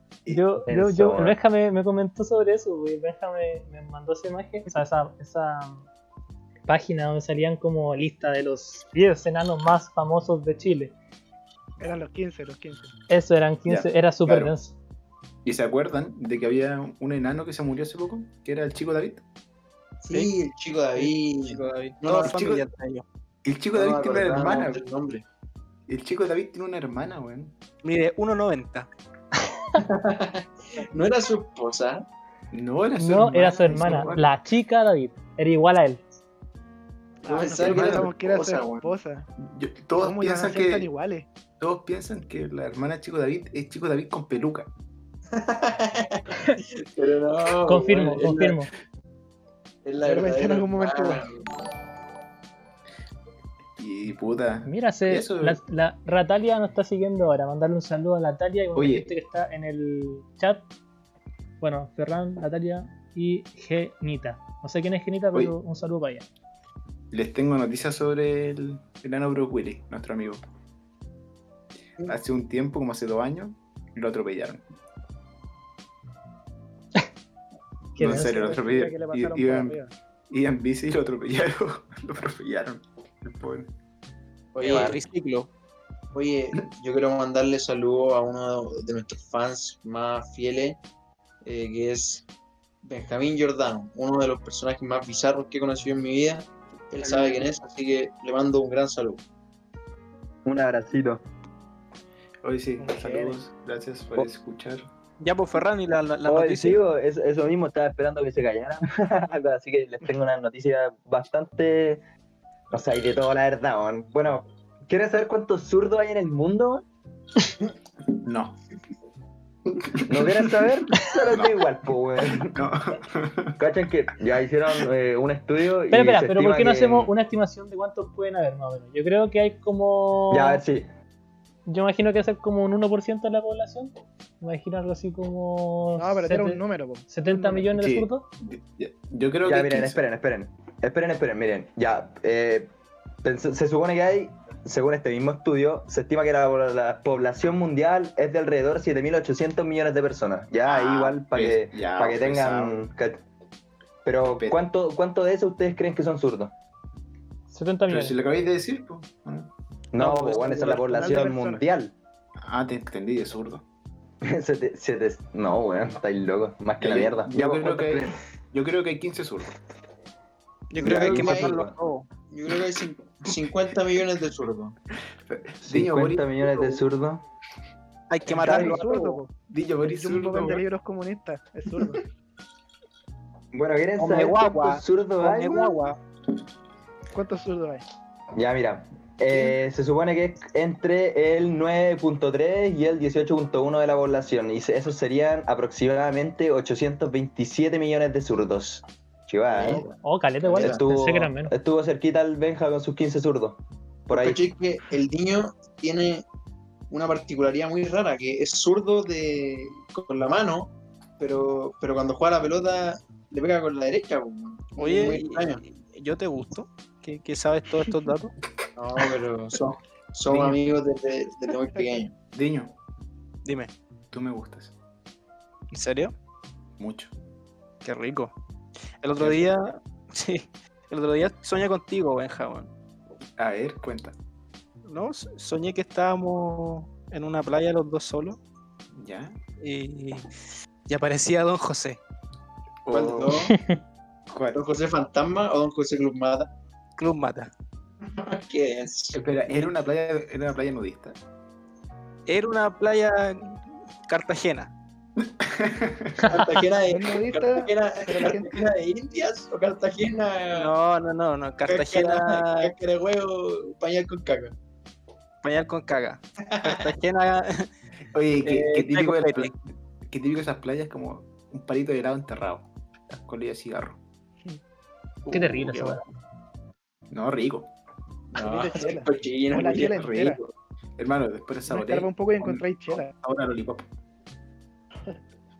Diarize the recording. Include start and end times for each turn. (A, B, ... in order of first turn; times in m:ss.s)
0:00.3-0:05.8 A
0:00.6-0:01.4 B
0:06.7-0:10.9 A
0:11.8-0:12.9 C
0:13.1-0:14.7 A
0:13.7-0:14.5 D
0:15.4-0:19.2 D
0:20.0-0:22.3 E
0:21.0-0:23.0 F
0:22.3-0:22.6 D
0:23.4-0:24.8 D
0:23.7-0:25.2 E
0:25.9-0:27.5 D
0:27.8-0:28.9 F
0:29.8-0:32.0 E
0:32.5-0:34.3 D
0:33.0-0:36.0 A
0:37.2-0:39.3 C
0:37.2-0:38.8 E
0:37.6-0:38.8 D
0:39.4-0:40.9 D
0:39.9-0:41.3 C
0:41.6-0:44.7 D
0:45.3-0:48.6 E
0:47.7-0:48.7 A
0:49.8-0:51.6 E
0:50.0-0:51.2 C
0:53.8-0:55.6 D
0:54.6-1:00.6 A
0:58.7-0:59.1 D
1:01.6-1:06.2 A
1:07.1-1:10.4 D
1:12.0-1:14.6 D
1:18.0-1:18.5 A
1:18.0-1:19.8 D
1:18.0-1:19.9 C
1:20.3-1:23.7 D
1:24.5-1:25.0 E
1:24.6-1:25.5 F
1:24.6-1:25.0 B
1:26.1-1:30.8 E
1:31.4-1:32.2 E
1:32.8-1:39.2 E
1:40.4-1:41.2 B
1:42.4-1:44.9 D
1:42.8-1:43.4 C
1:45.2-1:46.8 F
1:46.2-1:52.0 B
1:52.7-1:56.8 B
1:58.2-1:58.6 D
2:00.0-2:00.5 D
2:00.0-2:02.7 B
2:01.3-2:01.6 D
2:02.2-2:03.6 D
2:03.6-2:07.1 B
2:05.9-2:10.6 A
2:10.3-2:10.9 B
2:11.6-2:18.3 A
2:16.0-2:17.7 C
2:17.7-2:20.0 D
2:19.4-2:22.7 B
2:23.2-2:33.2 B
2:30.6-2:32.8 D
2:34.0-2:36.5 B
2:37.5-2:38.2 A
2:37.9-2:39.5 D
2:39.9-2:41.9 B
2:40.0-2:41.6 C
2:42.4-2:43.6 D
2:44.2-2:48.2 B
2:46.8-2:49.5 D
2:50.7-2:52.1 F
2:50.8-2:51.6 E
2:50.8-2:51.7 B
2:52.3-2:54.8 E
2:55.3-2:56.8 D
2:55.6-2:57.2 B
2:58.1-2:59.2 F
2:58.3-2:59.3 C
2:59.5-3:00.6 D
2:59.8-3:02.0 C
3:03.5-3:05.8 B
3:04.0-3:06.0 F
3:07.1-3:07.8 C
3:08.3-3:19.8 B
3:19.5-3:19.9 E
3:20.0-3:21.5 A
3:20.5-3:20.8 E
3:20.6-3:24.4 B
3:24.1-3:26.2 E
3:26.9-3:35.6 E
3:34.8-3:38.3 F
3:38.8-3:42.1 E
3:40.3-3:40.6 D
3:42.3-3:42.7 D
3:43.4-3:43.7 F
3:44.1-3:44.7 D
3:45.7-3:46.1 F
3:46.8-3:47.1 D
3:47.8-3:48.3 F
3:49.0-3:52.7 F
3:49.2-3:49.5 D
3:53.4-3:54.2 D
3:54.8-3:58.4 F
3:58.9-3:59.4 D
3:59.6-4:00.2 F
4:00.9-4:02.0 F
4:02.8-4:03.4 D
4:02.9-4:03.5 E
4:03.5-4:03.8 A
4:04.3-4:04.6 D
4:04.5-4:06.5 E
4:07.0-4:07.5 F
4:08.0-4:09.2 E
4:09.1-4:11.2 D
4:12.3-4:14.7 F
4:15.4-4:16.3 D
4:16.2-4:20.7 E
4:16.9-4:18.5 C
4:20.5-4:22.7 F
4:21.7-4:24.5 E
4:25.4-4:27.7 F
4:26.5-4:26.9 E
4:28.1-4:34.0 D
4:28.4-4:29.5 F
4:35.3-4:36.0 A
4:35.3-4:36.0 D
4:37.1-4:37.7 D
4:38.3-4:40.0 E
4:38.4-4:40.4 C
4:39.8-4:43.8 D
4:41.7-4:43.1 C